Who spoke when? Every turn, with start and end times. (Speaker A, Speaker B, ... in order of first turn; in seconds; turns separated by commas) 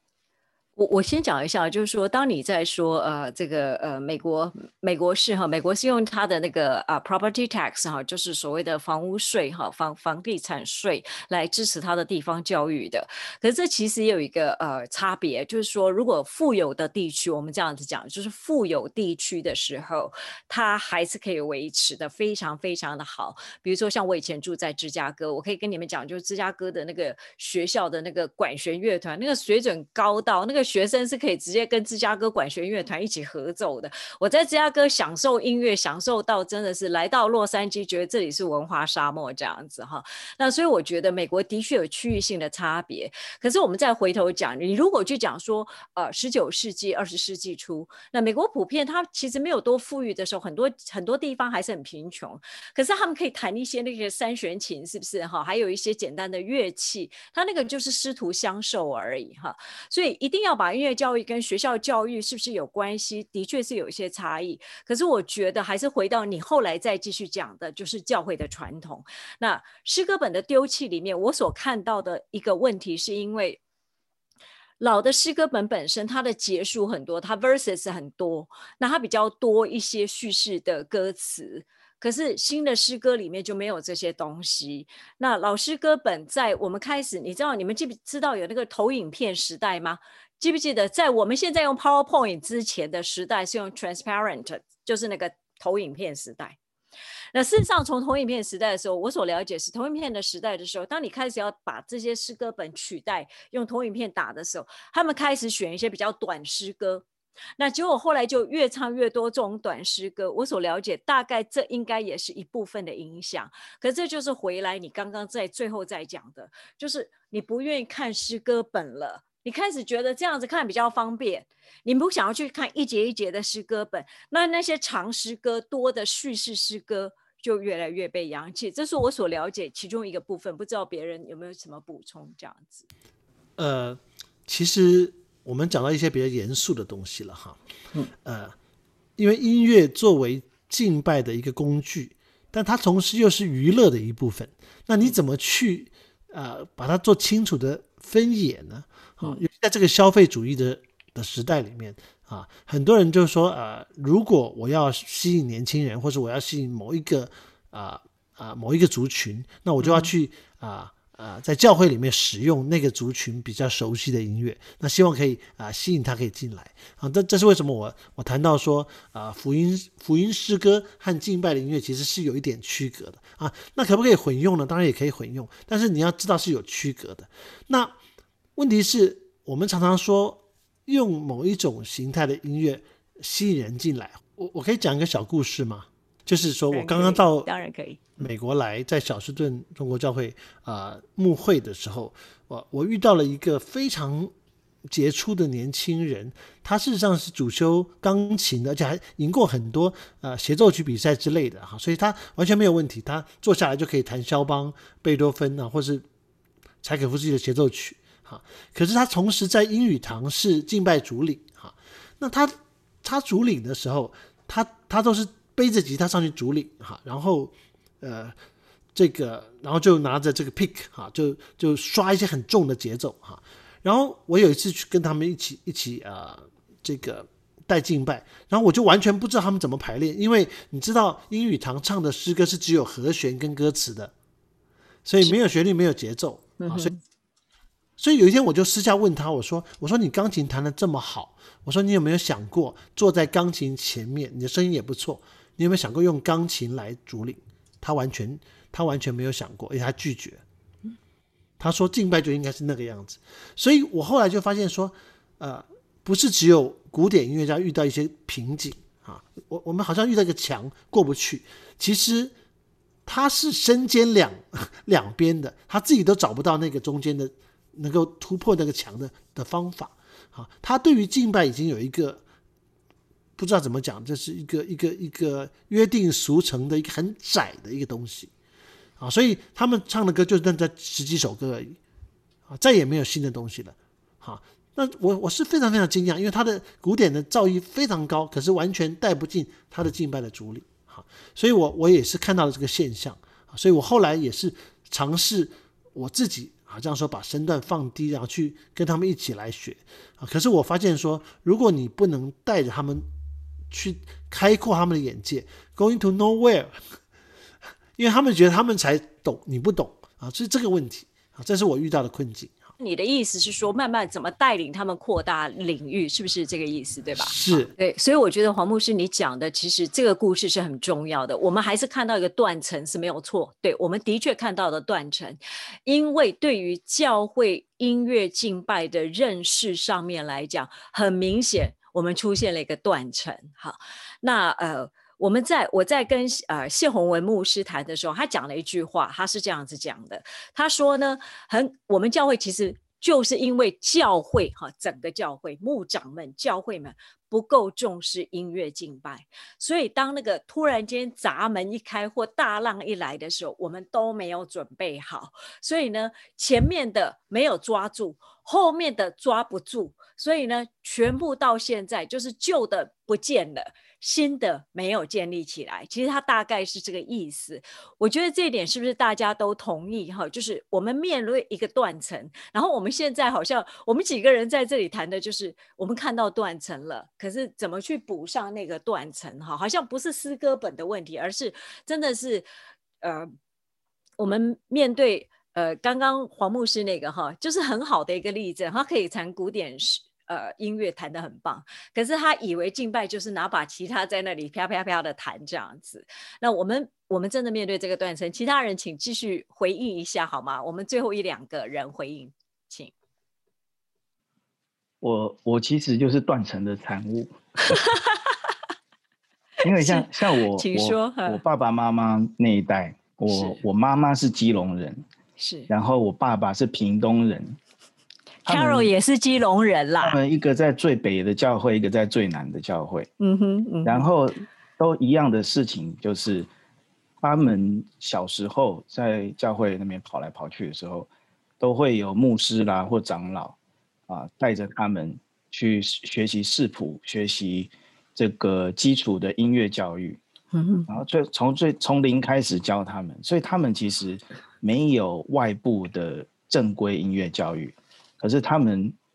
Speaker A: 0.8-73.6, Speaker A: 74.8-96.6, Speaker A: 97.3-107.1, Speaker A: 107.6-132.9, Speaker B: 133.6-137.6, Speaker B: 138.2-138.6, Speaker B: 139.2-178.0, Speaker A: 159.8-160.1, Speaker B: 178.6-187.5, Speaker A: 186.7-188.0, Speaker B: 188.2-194.3, Speaker B: 194.9-206.1, Speaker B: 206.8-218.4, Speaker B: 218.9-234.1, Speaker B: 235.1-236.9, Speaker A: 236.6-237.0, Speaker B: 238.0-250.4, Speaker B: 251.6-262.3, Speaker B: 263.1-272.2, Speaker B: 273.4-278.3, Speaker B: 279.0-281.8, Speaker B: 282.5-303.1, Speaker B: 303.7-307.0, Speaker B: 308.0-312.7, Speaker A: 312.8-382.5, Speaker B: 317.2-317.7, Speaker A: 383.0-383.3, Speaker A: 384.2-402.9, Speaker C: 405.0-407.8, Speaker A: 407.7-408.4, Speaker C: 409.6-415.0, Speaker A: 409.7-411.4, Speaker A: 413.3-413.6, Speaker A: 415.4-415.7, Speaker C: 415.7-417.6, Speaker A: 418.4-420.2, Speaker C: 418.5-418.9, Speaker C: 420.0-423.1, Speaker A: 423.2-424.1, Speaker C: 423.9-426.5, Speaker C: 427.2-431.1, Speaker C: 431.6-433.6, Speaker C: 434.1-440.2, Speaker A: 440.5-440.9, Speaker C: 440.9-448.9